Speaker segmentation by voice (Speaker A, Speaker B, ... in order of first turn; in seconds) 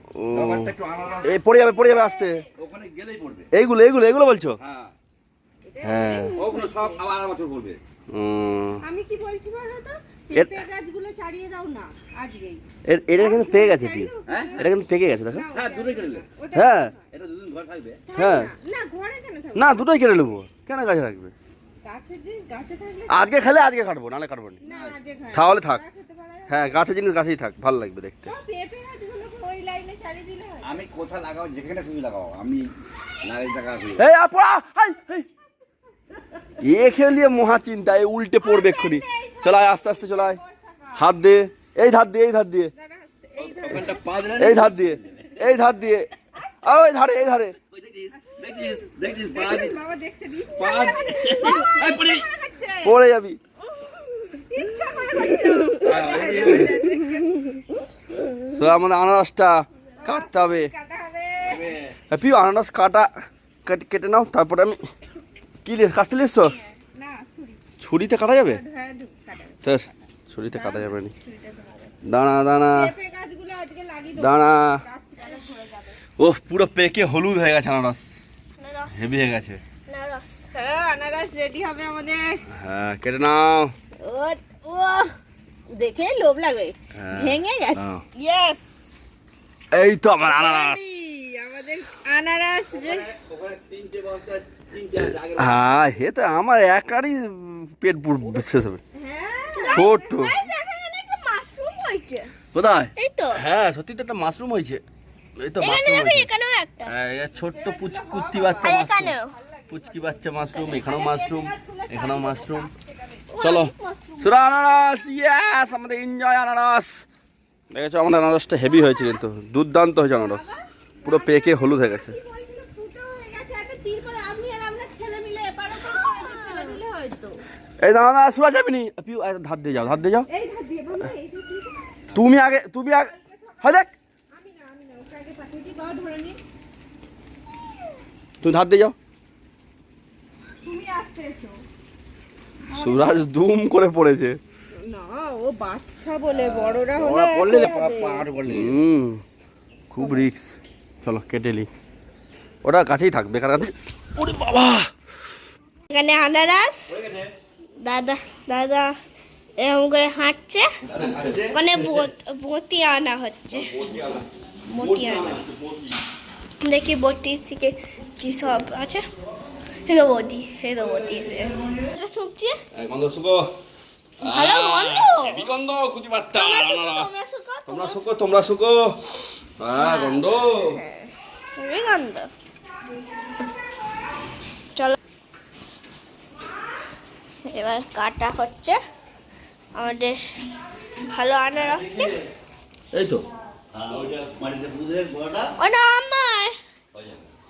Speaker A: 0.2-0.7, 1.2-2.4, 3.5-4.6, 5.8-6.4, 8.1-8.8, 10.3-10.6, 12.8-15.5, 16.5-16.9, 18.1-18.5, 19.5-21.3, 23.1-24.6, 25.3-25.8, 26.5-28.3, 34.0-35.2, 36.6-40.4, 40.9-42.7, 44.4-46.1, 46.6-47.5, 52.8-53.4, 56.1-56.5, 58.5-60.7, 62.1-63.1, 63.6-64.9, 65.6-66.6, 67.8-68.6, 69.6-71.1, 72.0-72.9, 74.2-74.8, 76.2-78.1, 78.9-79.6, 82.5-83.7, 86.9-88.0, 89.7-90.9, 95.0-98.8, 99.7-100.3, 102.5-104.8, 105.4-106.3, 106.8-109.2, 109.7-112.7, 113.4-117.0, 117.7-120.5, 121.0-122.2, 127.8-130.2, 132.1-133.9, 138.4-138.9, 142.7-144.4, 148.5-149.2, 149.9-151.7, 152.6-154.9, 172.7-173.5, 174.2-177.1, 177.7-180.8, 192.9-193.2
Speaker B: 0.3-1.4, 2.6-3.5, 4.6-4.9, 6.3-7.8, 14.2-14.7, 15.5-16.3, 17.1-18.0, 24.6-25.0, 30.6-32.7, 33.2-34.0, 43.4-45.4, 47.6-49.8, 50.5-52.3, 55.8-56.7, 61.4-61.9, 92.7-95.6, 146.3-148.8, 156.9-157.3, 160.8-161.9, 163.5-165.9, 191.5-192.2, 193.7-195.5, 196.9-197.3
Speaker C: 1.1-2.4, 5.6-7.0, 8.8-12.6, 13.1-14.7, 15.3-17.0, 18.1-19.8, 21.8-23.3, 24.6-26.8, 28.2-30.7, 38.4-41.0, 42.8-44.0, 48.1-53.0, 54.4-57.5, 60.0-61.7, 66.4-67.6, 68.4-71.9, 72.7-76.0, 80.5-82.4, 84.0-85.1, 85.7-88.6, 90.2-93.1, 99.1-99.9, 107.4-113.2, 120.1-127.4, 130.3-132.0, 133.1-133.7, 134.3-136.4, 140.6-141.6, 142.7-143.2, 144.7-148.2
Speaker D: 55.6-56.0, 78.6-79.0, 79.9-80.5, 99.2-102.3, 103.0-103.4, 105.6-106.9, 108.6-109.3, 113.3-114.3, 126.0-126.7, 155.9-156.9, 157.8-158.9, 159.6-160.8, 161.5-163.7, 164.7-165.4, 166.6-169.0, 169.8-172.6, 174.2-175.4, 176.3-178.0, 179.8-182.3, 187.5-188.8, 189.7-190.2, 191.0-192.2, 195.6-196.5